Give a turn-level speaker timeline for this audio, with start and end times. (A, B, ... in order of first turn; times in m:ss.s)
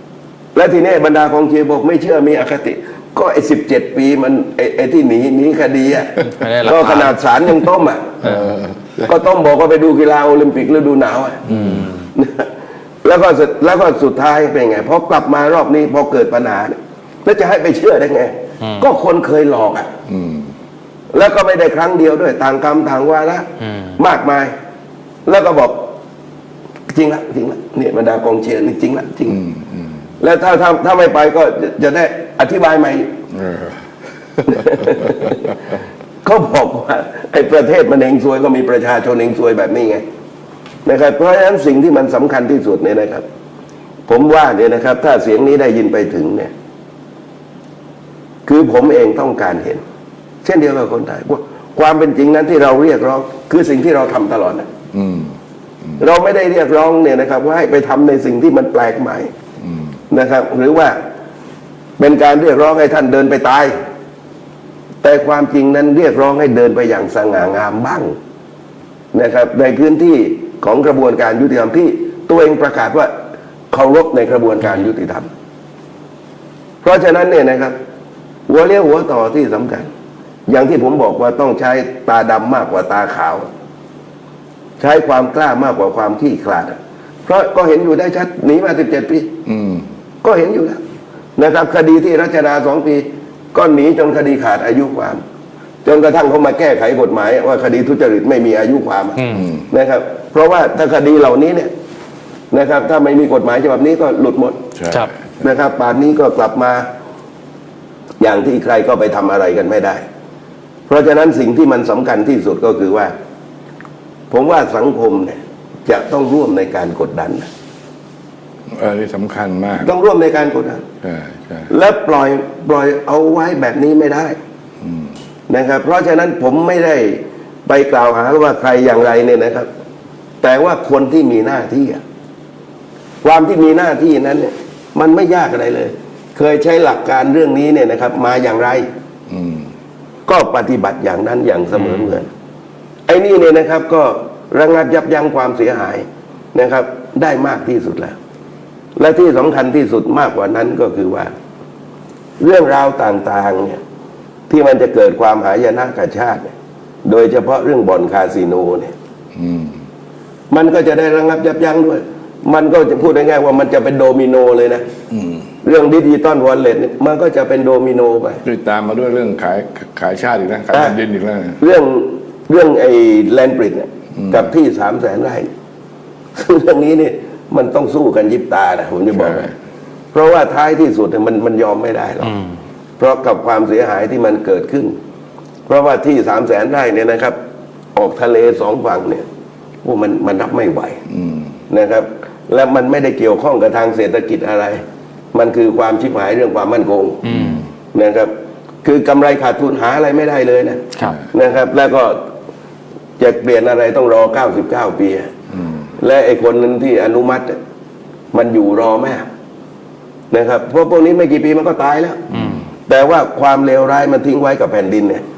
0:00.6-0:08.2 A
0:06.3-0:07.2 B
0:08.2-0:09.1 C
0:09.0-0:11.4 A
0:11.5-0:11.9 C
0:11.5-0:11.9 B
0:12.2-0:12.5 A
0:13.0-0:19.9 A
0:20.1-0:20.5 C
0:21.1-0:24.5 A
0:25.3-0:26.0 A
0:26.9-0:29.4 A
0:29.3-0:30.0 C
0:30.2-0:33.1 A
0:33.3-0:33.8 C
0:34.4-0:35.3 C
0:34.5-0:35.5 A
0:36.2-0:40.0 A
0:40.8-0:43.2 A
0:44.1-0:46.5 A
0:48.5-0:49.8 A
0:50.4-0:54.7 A
0:54.9-0:56.0 C
0:56.0-0:59.3 A
0:59.6-0:59.9 C
1:00.1-1:01.0 A
1:02.0-1:03.7 A
1:05.0-1:08.1 A
1:09.1-1:13.1 A
1:13.7-1:15.3 A
1:16.8-1:17.8 A
1:18.5-1:19.9 A
1:20.5-1:23.5 A
1:24.8-1:29.3 A
1:29.5-1:29.9 C
1:30.2-1:30.8 A
1:31.4-1:35.2 A
1:35.8-1:41.7 A
1:39.2-1:39.5 B
1:39.3-1:39.7 C
1:42.5-1:44.7 A
1:44.8-1:45.3 C
1:45.4-1:46.9 A
1:48.2-1:50.0 A
1:50.9-1:53.1 A
1:54.3-1:57.5 A
1:58.7-1:59.9 C
1:59.8-2:00.8 A
2:01.0-2:01.7 C
2:01.7-2:04.4 A
2:04.8-2:05.1 C
2:05.5-2:09.7 A
2:10.4-2:12.0 A
2:13.2-2:18.9 A
2:19.3-2:19.7 C
2:20.3-2:22.3 A
2:23.1-2:28.2 A
2:29.0-2:31.3 A
2:32.4-2:33.8 A
2:34.5-2:36.5 A
2:37.0-2:38.9 A
2:39.4-2:39.8 C
2:40.5-2:44.8 A
2:45.1-2:45.5 C
2:45.6-2:48.4 A
2:48.4-2:51.6 C
2:50.7-2:51.0 A
2:51.6-2:55.5 A
2:54.2-2:54.5 C
2:56.4-2:59.5 A
2:59.1-2:59.5 C
3:00.1-3:02.4 A
3:03.0-3:04.9 A
3:05.7-3:07.4 A
3:08.0-3:09.2 A
3:09.8-3:11.0 A
3:11.1-3:11.5 C
3:11.7-3:14.8 A
3:15.3-3:17.2 A
3:17.2-3:17.7 B
3:17.9-3:18.3 A
3:18.8-3:22.2 A
3:23.2-3:25.3 A
3:25.5-3:25.9 C
3:26.0-3:27.6 A
3:28.3-3:29.2 A
3:30.3-3:32.2 A
3:32.3-3:32.6 C
3:32.9-3:35.2 A